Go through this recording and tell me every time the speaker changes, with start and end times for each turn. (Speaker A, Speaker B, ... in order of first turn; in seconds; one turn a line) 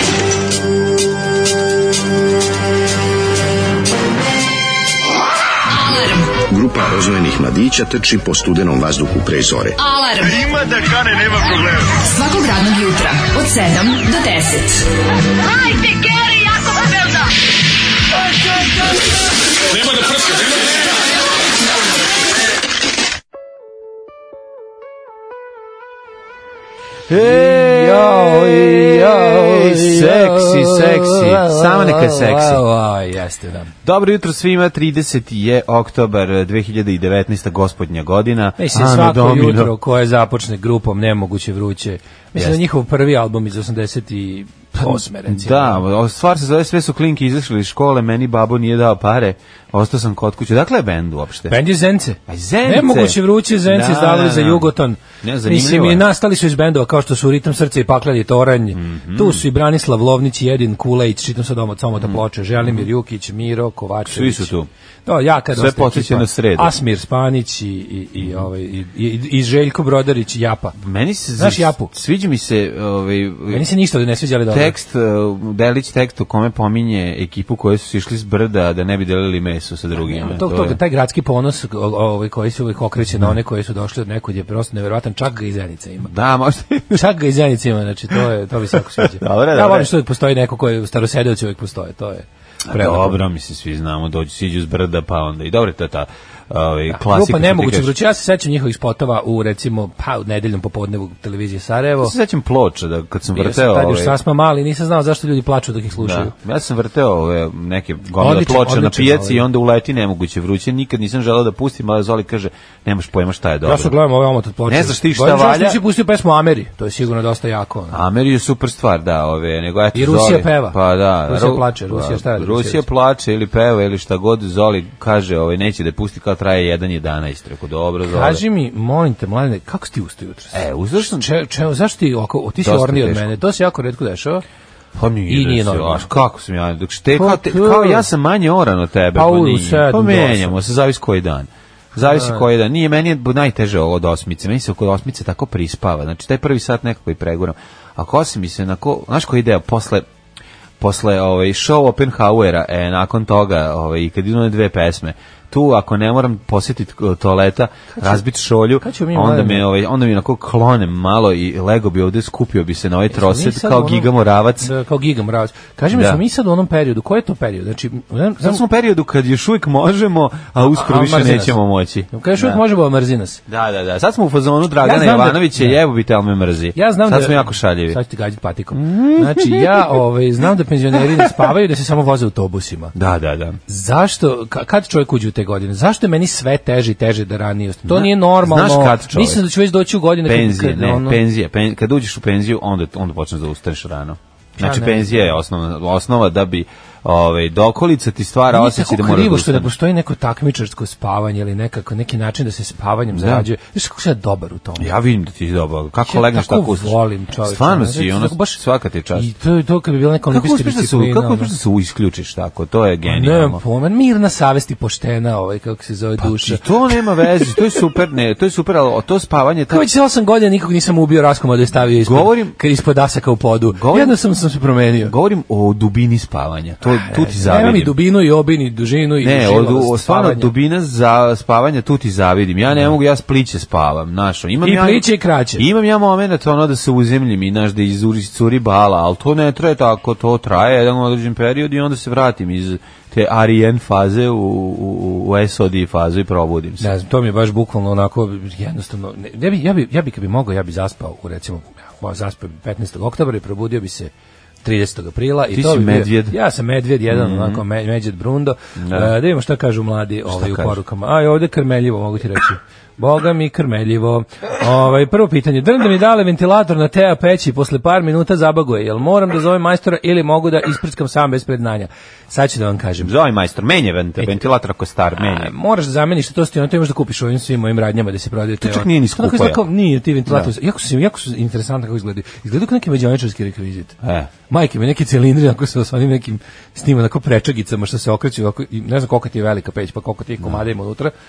Speaker A: 5.7-6.3
Speaker B: 6.4-9.8
Speaker A: 9.8-14.9
Speaker A: 15.4-17.1
Speaker C: 27.1-33.7
Speaker D: 27.1-32.6
Speaker D: 33.8-39.7
Speaker C: 38.6-45.8
Speaker D: 44.8-51.6
Speaker C: 51.5-64.5
Speaker D: 52.3-54.7
Speaker D: 55.2-56.1
Speaker D: 58.7-59.4
Speaker D: 62.0-62.9
Speaker D: 64.0-64.7
Speaker C: 65.0-70.8
Speaker D: 65.5-66.7
Speaker D: 70.8-73.7
Speaker C: 71.4-71.9
Speaker C: 73.5-74.7
Speaker D: 74.5-80.8
Speaker C: 80.0-86.1
Speaker D: 86.0-87.0
Speaker C: 86.9-93.2
Speaker D: 89.0-89.9
Speaker D: 92.7-97.9
Speaker C: 96.9-102.1
Speaker D: 102.0-104.2
Speaker C: 103.3-106.3
Speaker D: 106.0-114.0
Speaker C: 108.2-109.4
Speaker C: 113.6-118.0
Speaker D: 114.7-115.8
Speaker D: 117.9-128.4
Speaker C: 119.9-122.8
Speaker C: 128.0-134.4
Speaker D: 130.5-131.3
Speaker D: 132.6-133.3
Speaker D: 134.9-150.1
Speaker C: 135.3-136.1
Speaker C: 137.1-138.1
Speaker C: 139.1-140.6
Speaker C: 142.0-142.4
Speaker D: 150.8-164.7
Speaker C: 157.9-158.2
Speaker C: 158.8-159.7
Speaker C: 163.1-168.6
Speaker D: 165.9-166.2
Speaker D: 168.4-172.6
Speaker C: 170.6-171.6
Speaker C: 172.1-173.4
Speaker D: 173.5-178.0
Speaker C: 174.8-175.8
Speaker C: 176.7-182.9
Speaker D: 178.7-180.0
Speaker D: 180.9-181.5
Speaker D: 182.9-183.6
Speaker C: 183.7-191.2
Speaker D: 187.8-189.4
Speaker D: 190.2-199.7
Speaker C: 194.6-195.4
Speaker C: 198.5-204.9
Speaker D: 203.1-203.5
Speaker D: 204.8-209.3
Speaker C: 206.0-208.6
Speaker C: 209.1-211.5
Speaker D: 210.3-213.6
Speaker C: 213.0-217.7
Speaker D: 216.2-219.9
Speaker C: 219.7-225.1
Speaker D: 221.9-222.5
Speaker D: 223.7-224.2
Speaker D: 225.0-227.9
Speaker C: 226.9-230.5
Speaker D: 229.2-246.9
Speaker C: 234.6-235.6
Speaker C: 246.8-254.1
Speaker C: 254.6-273.1
Speaker D: 255.5-256.3
Speaker D: 257.1-257.6
Speaker D: 258.8-259.1
Speaker D: 260.3-260.8
Speaker D: 273.0-275.5
Speaker C: 275.2-284.0
Speaker D: 278.6-279.6
Speaker D: 284.0-284.3
Speaker C: 284.5-291.1